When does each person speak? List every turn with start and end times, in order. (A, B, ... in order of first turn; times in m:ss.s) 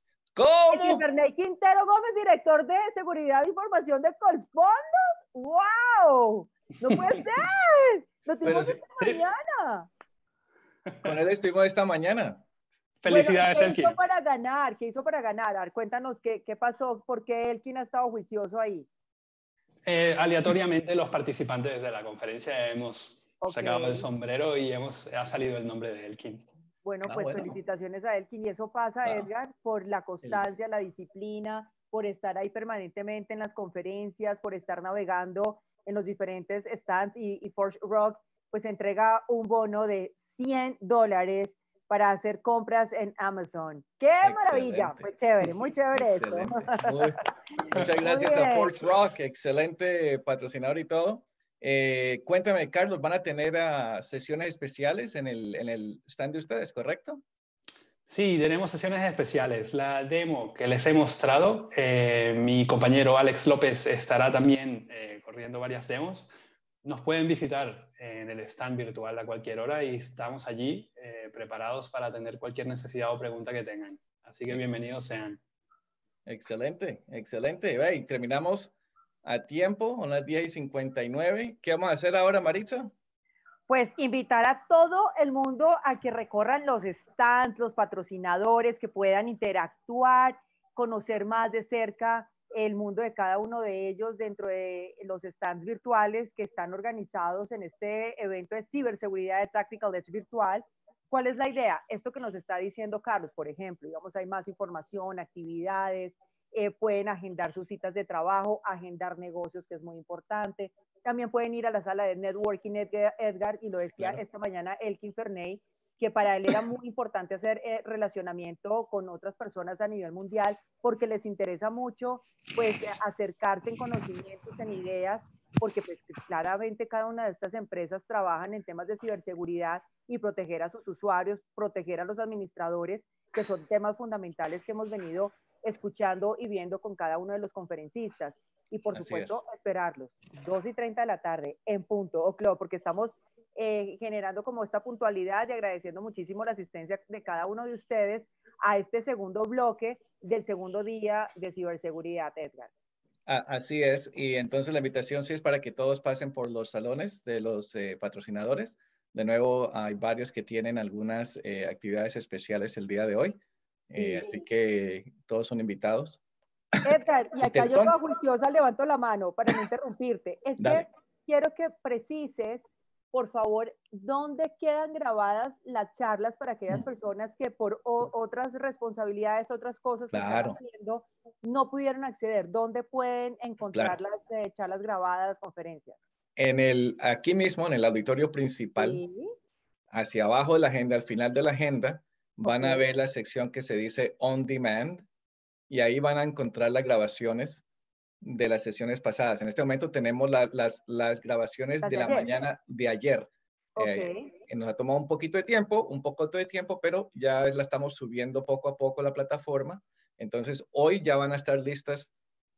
0:00.4-0:01.0 A
0:00.7-0:09.9 B
0:08.4-0:08.8 A
0:10.9-0:11.1 C
0:11.0-0:12.4 A
0:13.0-0:14.0 C
0:13.1-0:18.9 B
0:19.8-0:26.4 C
0:23.4-0:24.1 B
0:26.8-0:47.0 B
0:27.1-0:27.4 C
0:44.2-0:57.2 A
0:47.6-0:48.8 B
0:58.1-1:06.3 C
1:06.8-1:15.4 C
1:16.3-1:18.7 A
1:19.2-1:22.9 A
1:23.7-2:32.7 B
2:18.9-2:19.4 A
2:33.3-2:46.2 A
2:43.9-2:44.4 B
2:46.8-3:06.0 B
2:47.4-2:48.0 A
2:50.6-2:50.9 A
3:00.1-3:00.6 A
3:03.7-3:04.0 A
3:06.4-3:09.0 A
3:08.8-3:09.3 B
3:09.9-3:15.1 A
3:12.4-3:12.9 B
3:15.7-3:17.6 A
3:18.2-3:32.1 A
3:21.8-3:22.3 B
3:23.8-3:24.3 B